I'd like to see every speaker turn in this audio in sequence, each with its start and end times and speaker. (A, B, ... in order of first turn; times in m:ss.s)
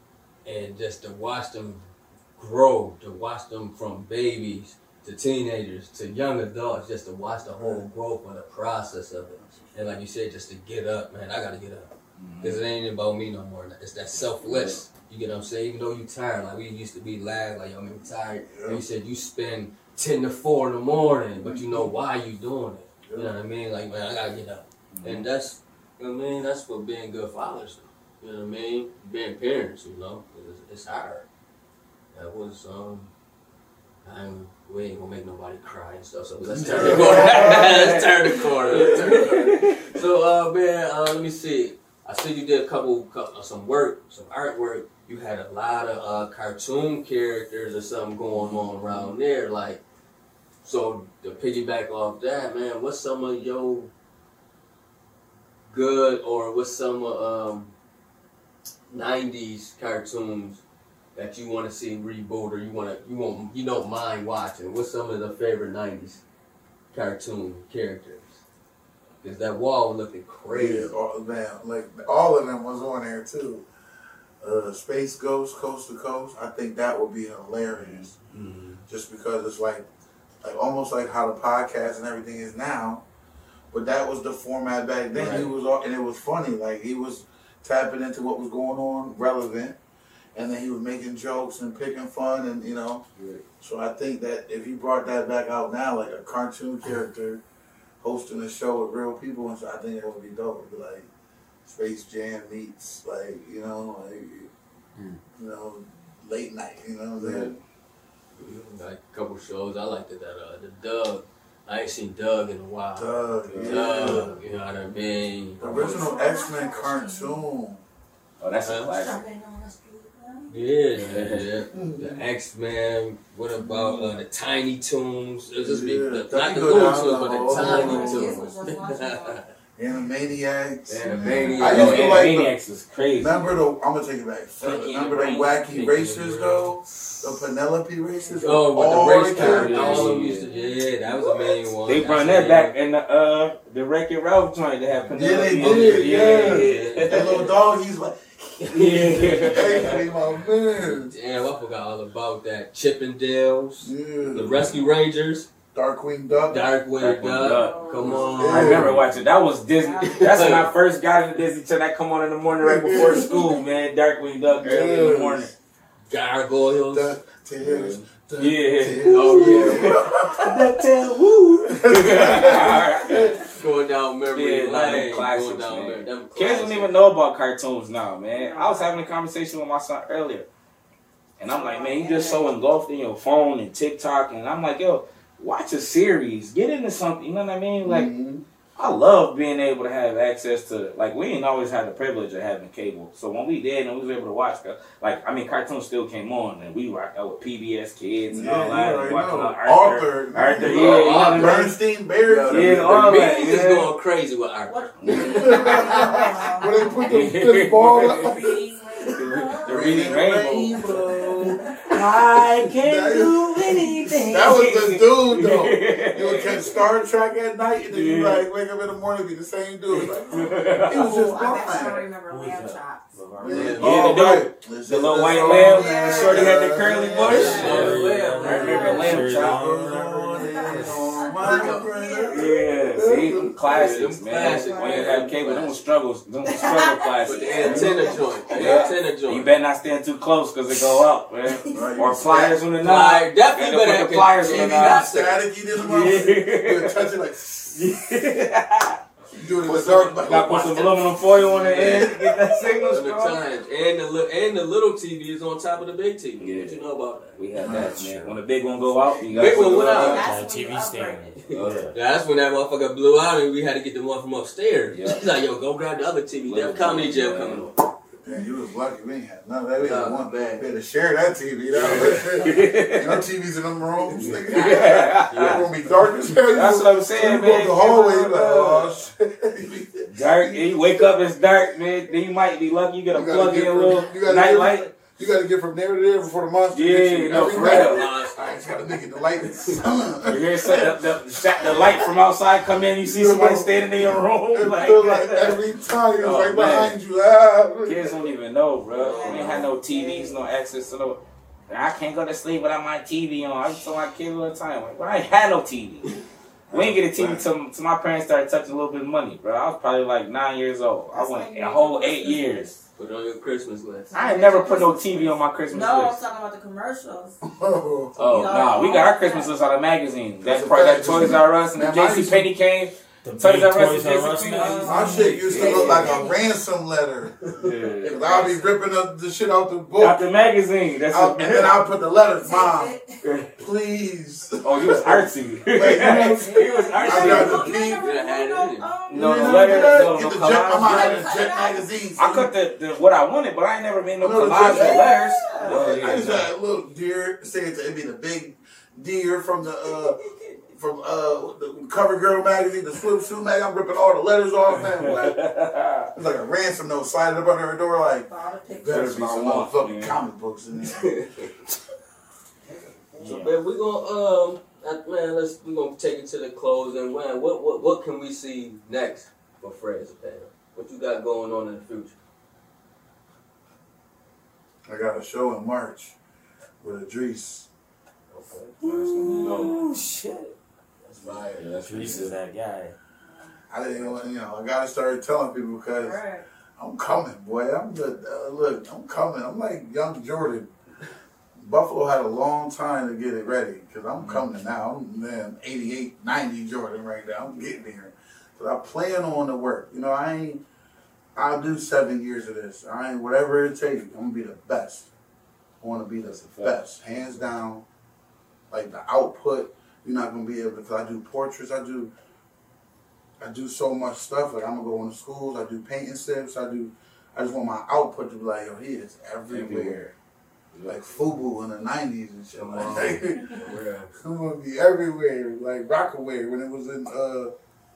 0:00.4-0:31.2 A
0:07.5-0:07.9 B
0:09.3-0:10.0 B
0:12.2-0:12.6 C
0:14.4-0:14.7 B
0:18.5-0:18.8 B
0:21.4-0:21.9 B
0:23.0-0:23.4 B
0:24.9-0:25.2 C
0:32.1-0:33.1 A
0:34.0-0:49.8 A
0:36.5-0:37.9 B
0:36.7-0:39.8 C
0:50.6-0:53.9 A
0:55.7-0:57.7 A
0:58.9-1:00.6 A
1:01.1-1:06.2 A
1:06.9-1:08.4 A
1:09.2-1:11.0 A
1:10.5-1:13.6 B
1:14.4-1:18.1 B
1:18.3-1:18.8 A
1:18.9-1:19.9 B
1:20.4-1:23.0 B
1:23.7-1:29.8 B
1:25.1-1:25.5 A
1:30.3-1:33.0 B
1:33.2-1:33.4 A
1:33.6-1:37.4 B
1:38.0-1:41.1 B
1:41.6-1:44.5 B
1:45.3-1:47.5 B
1:48.3-1:56.2 A
1:52.9-1:54.4 B
1:55.6-1:57.8 B
1:55.6-1:57.4 D
1:58.4-1:59.2 C
1:58.6-1:58.9 A
1:58.9-2:00.7 D
2:00.5-2:09.5 A
2:01.0-2:01.5 C
2:01.7-2:02.2 B
2:03.6-2:04.2 B
2:05.6-2:08.5 B
2:07.4-2:09.4 D
2:09.8-2:12.5 B
2:10.9-2:12.3 A
2:11.6-2:13.6 C
2:13.2-2:20.3 B
2:14.6-2:15.9 C
2:15.7-2:16.7 A
2:18.3-2:22.8 A
2:19.1-2:20.4 C
2:20.5-2:20.8 D
2:21.8-2:27.4 C
2:25.0-2:27.5 A
2:25.1-2:31.1 B
2:28.7-2:30.1 A
2:28.7-2:30.0 C
2:30.7-2:35.5 A
2:33.8-2:34.7 B
2:35.7-2:36.7 B
2:36.5-2:38.9 A
2:37.0-2:45.5 C
2:37.3-2:38.6 D
2:38.0-2:39.0 B
2:39.8-2:40.5 D
2:40.1-2:40.7 A
2:42.5-2:43.5 B
2:44.6-2:45.5 B
2:46.1-2:47.2 A
2:46.9-2:50.6 B
2:47.6-2:53.4 C
2:49.0-2:50.2 A
2:51.7-2:53.4 B
2:53.4-2:57.0 A
2:54.3-3:00.5 C
2:58.3-2:59.1 D
3:01.4-3:08.1 C
3:01.4-3:02.5 D
3:07.8-3:08.4 B
3:08.8-3:21.7 C
3:18.3-3:23.2 B
3:20.6-3:26.2 A
3:22.5-3:23.9 C
3:24.7-3:27.3 D
3:25.0-3:26.0 C
3:25.1-3:31.9 B
3:27.1-3:28.6 C
3:27.9-3:31.8 D
3:29.1-3:30.9 C
3:31.8-3:36.7 C
3:32.6-3:42.1 B
3:37.9-3:38.4 C
3:40.3-3:41.2 C
3:40.8-3:43.2 D
3:42.2-3:44.2 E
3:43.4-3:47.8 B
3:43.4-3:44.0 A
3:43.8-3:49.6 C
3:45.2-3:46.7 D
3:47.2-3:51.0 E
3:47.2-3:49.3 A
3:47.4-3:47.8 D
3:48.4-3:49.3 D
3:49.0-3:53.5 B
3:50.4-3:52.5 D
3:51.3-3:51.9 A
3:52.3-4:05.1 C
3:53.6-3:55.8 A
3:54.3-3:55.6 D
3:56.4-3:58.9 D
3:57.2-3:59.5 A
4:01.7-4:02.6 B
4:02.8-4:06.3 A
4:04.5-4:08.3 B
4:05.8-4:07.1 C
4:07.7-4:09.0 C
4:09.3-4:12.1 B
4:09.6-4:13.4 C
4:11.4-4:12.3 A
4:12.8-4:17.4 A
4:16.4-4:16.8 C
4:17.3-4:20.3 C
4:17.6-4:18.4 B
4:19.3-4:21.6 D
4:19.3-4:20.3 A
4:19.5-4:21.9 E
4:21.5-4:27.8 A
4:21.5-4:21.9 C
4:24.9-4:25.3 C
4:26.4-4:27.7 C
4:28.2-4:40.7 B
4:29.8-4:30.7 A
4:31.8-4:33.2 C
4:31.8-4:32.2 A
4:34.1-4:35.7 C
4:34.5-4:35.6 A
4:36.4-4:39.0 C
4:40.1-4:44.9 C
4:43.1-4:52.1 B
4:46.7-4:48.1 C
4:47.3-4:48.6 A
4:50.2-4:55.6 C
4:53.0-4:58.2 B
4:56.2-4:57.0 C
4:57.8-5:06.2 C
4:58.9-5:00.4 D
4:59.2-4:59.7 B
5:06.7-5:07.5 B
5:06.7-5:12.7 C
5:11.1-5:12.8 D
5:13.0-5:14.1 A
5:14.1-5:17.4 D
5:14.1-5:16.2 C
5:17.4-5:18.1 B
5:18.2-5:19.6 D
5:18.2-5:26.0 C
5:20.4-5:22.5 B
5:23.2-5:25.0 E
5:24.5-5:26.5 D
5:24.8-5:30.3 B
5:24.9-5:26.2 A
5:27.6-5:28.2 C
5:28.0-5:28.7 D
5:30.0-5:31.8 C
5:31.1-5:33.0 B
5:32.3-5:33.2 D
5:33.2-5:33.5 C
5:33.6-5:38.1 B
5:34.6-5:37.8 C
5:35.8-5:40.2 D
5:38.0-5:38.9 A
5:39.1-5:41.3 C
5:39.1-5:42.5 B
5:40.8-5:41.9 D
5:42.2-5:46.5 C
5:44.2-5:50.2 B
5:44.6-5:45.8 D
5:50.7-5:55.4 B
5:54.7-5:56.1 C
5:56.1-6:01.5 B
5:58.2-5:59.2 D
5:58.8-6:00.2 C
6:03.2-6:03.5 C
6:03.2-6:12.2 A
6:14.8-6:16.2 B
6:16.8-6:17.7 B
6:18.3-6:19.8 A
6:18.8-6:19.8 C
6:19.2-6:20.0 D
6:21.0-6:22.3 A
6:21.2-6:21.6 B
6:21.6-6:22.4 C
6:21.8-6:22.9 E
6:23.7-6:26.2 B
6:26.0-6:26.4 D
6:26.8-6:30.7 B
6:31.6-6:40.6 B
6:41.4-6:45.1 B
6:45.8-6:47.8 B
6:46.5-6:46.8 C
6:48.7-6:52.1 B
6:53.4-7:00.0 B
6:59.5-7:00.1 C
7:00.8-7:07.5 B
7:02.5-7:04.1 A